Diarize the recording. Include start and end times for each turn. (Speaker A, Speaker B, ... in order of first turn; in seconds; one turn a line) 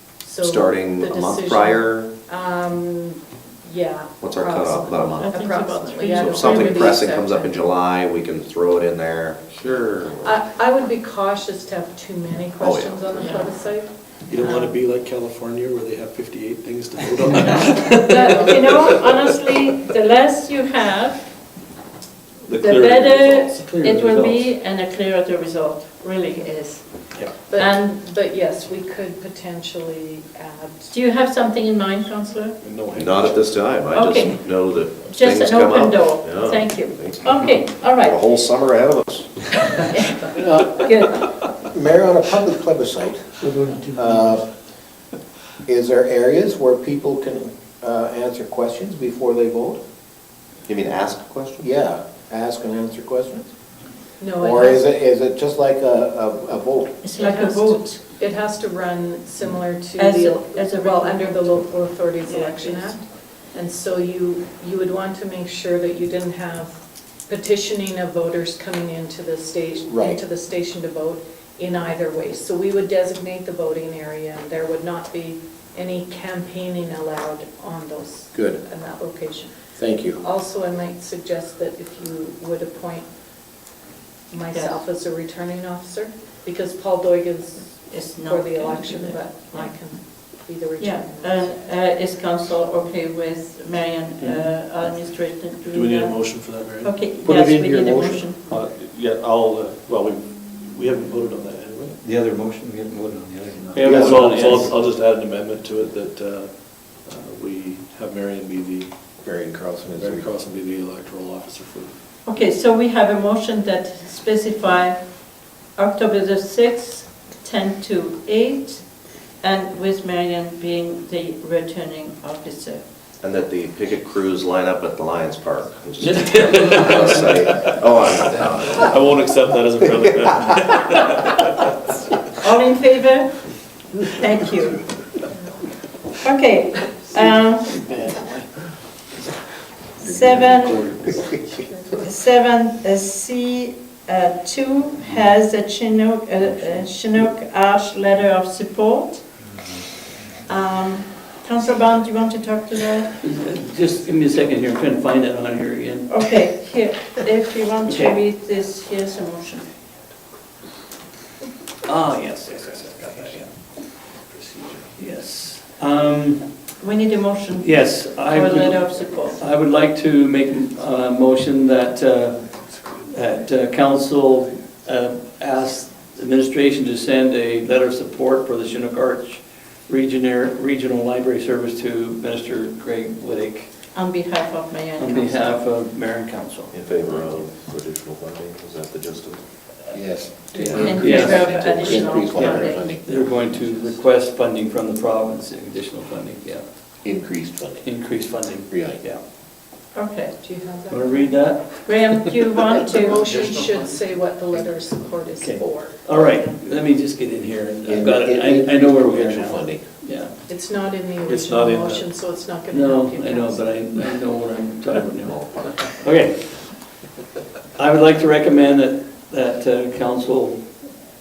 Speaker A: 0.2-7.5
Speaker B: 0.4-2.1
Speaker B: 4.2-5.4
Speaker C: 5.1-7.1
Speaker B: 6.0-10.4
Speaker A: 10.2-13.9
Speaker B: 12.6-13.2
Speaker C: 13.2-13.5
Speaker D: 14.3-19.4
Speaker C: 14.4-14.7
Speaker E: 17.6-18.0
Speaker A: 17.8-18.6
Speaker C: 18.1-21.2
Speaker E: 22.5-24.4
Speaker C: 22.5-26.8
Speaker D: 22.6-23.8
Speaker A: 27.5-30.9
Speaker C: 27.6-27.8
Speaker C: 30.9-32.6
Speaker D: 32.6-33.5
Speaker B: 32.9-37.4
Speaker C: 33.9-34.5
Speaker C: 35.0-38.2
Speaker B: 37.9-39.4
Speaker C: 39.7-41.2
Speaker F: 40.3-40.8
Speaker F: 41.7-44.4
Speaker F: 45.7-49.8
Speaker B: 50.7-51.7
Speaker F: 51.6-53.5
Speaker A: 54.2-54.9
Speaker F: 54.4-57.0
Speaker C: 57.0-58.0
Speaker A: 57.2-63.0
Speaker C: 60.0-61.7
Speaker C: 62.2-63.0
Speaker A: 63.5-83.1
Speaker F: 69.8-70.2
Speaker F: 78.3-78.6
Speaker F: 79.8-80.2
Speaker A: 84.3-91.5
Speaker C: 84.5-84.8
Speaker C: 87.9-89.8
Speaker C: 90.8-98.4
Speaker D: 94.2-94.5
Speaker D: 95.7-102.0
Speaker F: 97.2-98.2
Speaker G: 102.0-104.8
Speaker E: 103.7-104.7
Speaker D: 103.8-108.9
Speaker F: 103.8-104.4
Speaker F: 109.2-110.3
Speaker D: 109.9-111.9
Speaker C: 112.2-115.0
Speaker C: 115.8-118.8
Speaker C: 119.4-122.8
Speaker B: 123.2-128.9
Speaker D: 126.0-131.4
Speaker C: 132.4-133.3
Speaker C: 134.1-134.8
Speaker C: 136.2-137.8
Speaker E: 137.2-138.4
Speaker C: 140.0-140.9
Speaker F: 140.0-141.3
Speaker A: 141.5-141.9
Speaker C: 141.9-149.2
Speaker C: 150.5-153.2
Speaker E: 153.2-156.3
Speaker C: 156.1-159.7
Speaker E: 157.8-158.2
Speaker E: 161.8-163.6
Speaker E: 164.5-166.5
Speaker C: 166.8-169.4
Speaker E: 167.6-172.5
Speaker E: 173.1-183.7
Speaker C: 183.9-185.6
Speaker E: 185.0-186.8
Speaker B: 186.7-189.5
Speaker F: 189.9-193.6
Speaker E: 190.5-196.7
Speaker C: 190.7-192.9
Speaker F: 197.0-198.0
Speaker E: 197.8-199.2
Speaker F: 198.7-199.0
Speaker C: 199.9-200.4
Speaker A: 200.4-201.4
Speaker E: 200.9-201.8
Speaker C: 201.8-203.3
Speaker A: 202.5-206.5
Speaker E: 205.4-210.3
Speaker F: 207.8-209.8
Speaker A: 210.5-213.7
Speaker D: 211.2-212.0
Speaker E: 212.7-216.7
Speaker E: 217.8-220.6